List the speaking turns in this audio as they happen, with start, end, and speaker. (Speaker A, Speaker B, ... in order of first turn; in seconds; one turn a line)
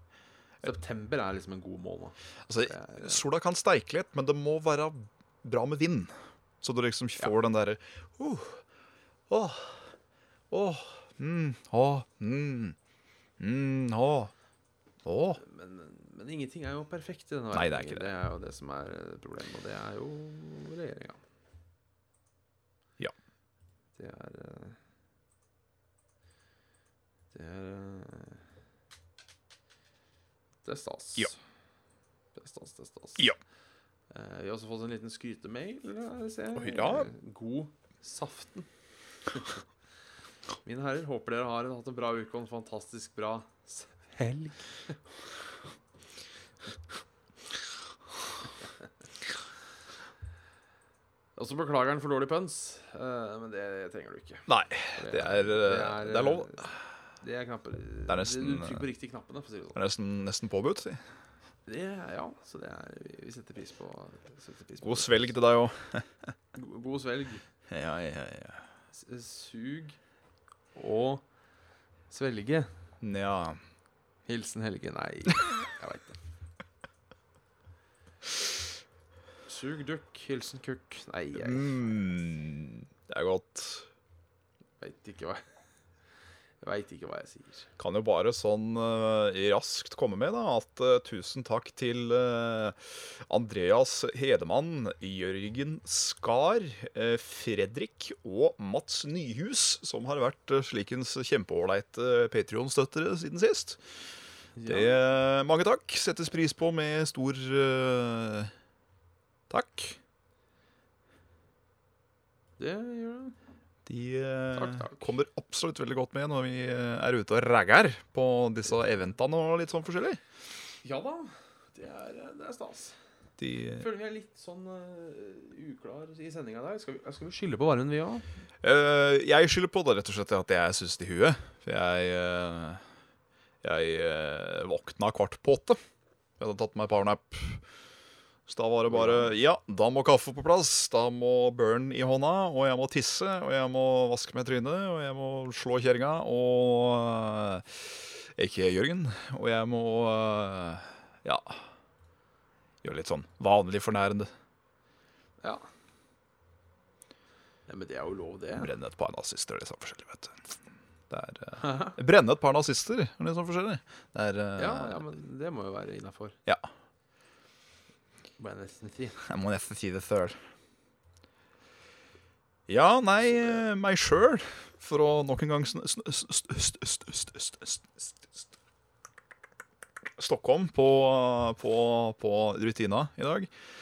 Speaker A: 0.6-3.2
Speaker B: 2.5-8.6
Speaker B: 9.3-9.9
Speaker B: 10.5-12.8
Speaker B: 13.4-14.3
Speaker B: 15.1-15.4
Speaker A: 15.4-21.2
Speaker B: 17.5-18.1
Speaker A: 24.0-24.8
Speaker A: 27.3-28.4
Speaker A: 30.6-31.4
Speaker A: 32.4-33.3
Speaker A: 34.1-38.7
Speaker B: 36.5-37.1
Speaker A: 39.3-39.6
Speaker A: 40.6-45.0
Speaker A: 51.4-59.8
Speaker B: 54.5-56.6
Speaker B: 58.1-58.9
Speaker B: 59.7-61.0
Speaker A: 61.7-65.3
Speaker B: 64.8-66.3
Speaker A: 66.5-67.4
Speaker B: 67.7-68.6
Speaker A: 68.9-70.0
Speaker A: 70.8-71.2
Speaker A: 72.1-72.7
Speaker B: 73.0-73.6
Speaker A: 74.3-76.2
Speaker A: 79.5-81.9
Speaker B: 81.4-83.9
Speaker A: 84.8-85.5
Speaker A: 86.6-87.7
Speaker B: 87.8-103.8
Speaker A: 104.6-105.0
Speaker B: 104.7-108.5
Speaker B: 109.5-110.0
Speaker A: 112.6-113.3
Speaker B: 113.9-120.2
Speaker A: 114.5-115.1
Speaker A: 120.8-123.0
Speaker B: 123.4-123.9
Speaker A: 123.8-128.2
Speaker B: 128.6-132.8
Speaker B: 133.6-135.8
Speaker B: 136.4-137.6
Speaker B: 138.5-151.7
Speaker A: 138.9-139.3
Speaker B: 152.8-154.3
Speaker A: 157.7-158.7
Speaker B: 158.6-160.5
Speaker B: 161.1-165.0
Speaker A: 161.6-162.0
Speaker A: 164.6-166.4
Speaker A: 168.4-169.2
Speaker B: 169.2-170.4
Speaker B: 172.7-178.0
Speaker B: 180.2-183.5